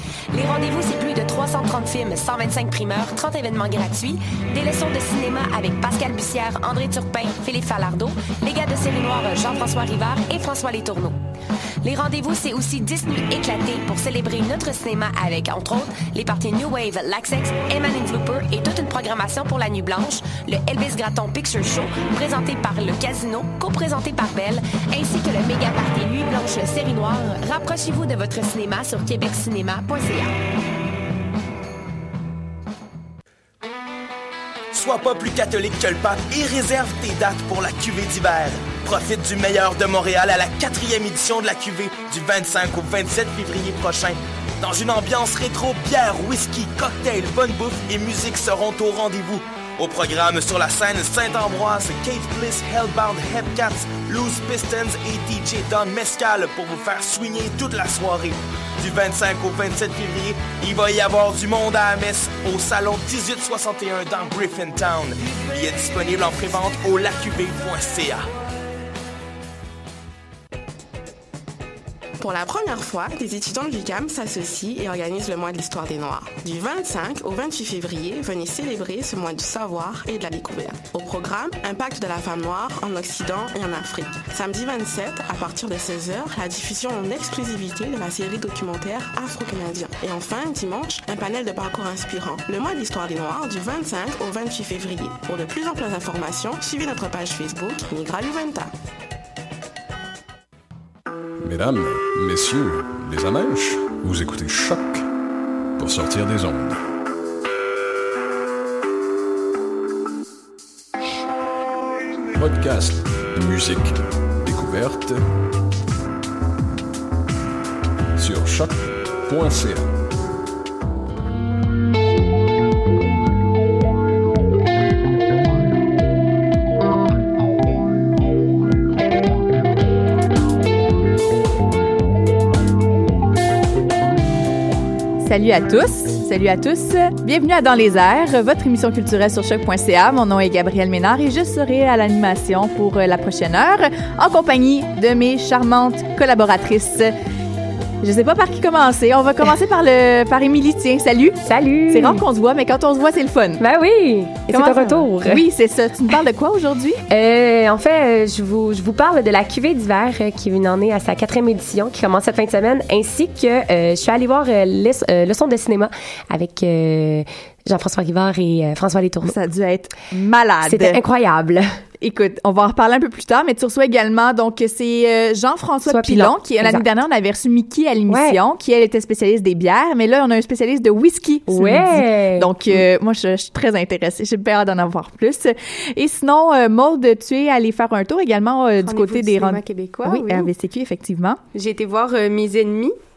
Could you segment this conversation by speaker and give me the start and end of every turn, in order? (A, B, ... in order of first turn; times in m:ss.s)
0:00.3-0:11.2 A
0:11.8-0:30.3 A
0:34.7-1:08.3 B
1:12.2-1:38.7 C
1:41.4-1:45.0 D
1:45.8-1:46.8 D
1:52.4-1:55.2 D
1:58.2-1:59.9 D
2:15.2-2:27.1 E
2:28.0-2:31.4 E
2:31.4-2:32.2 F
2:31.9-2:33.6 E
2:33.6-2:35.4 F
2:34.5-2:37.0 E
2:37.1-2:49.4 F
2:49.2-2:51.0 E
2:50.6-2:51.6 F
2:52.0-3:11.4 E
2:55.9-2:56.8 F
2:58.1-2:58.4 F
3:01.5-3:02.5 F
3:08.8-3:10.5 G
3:11.5-3:12.9 G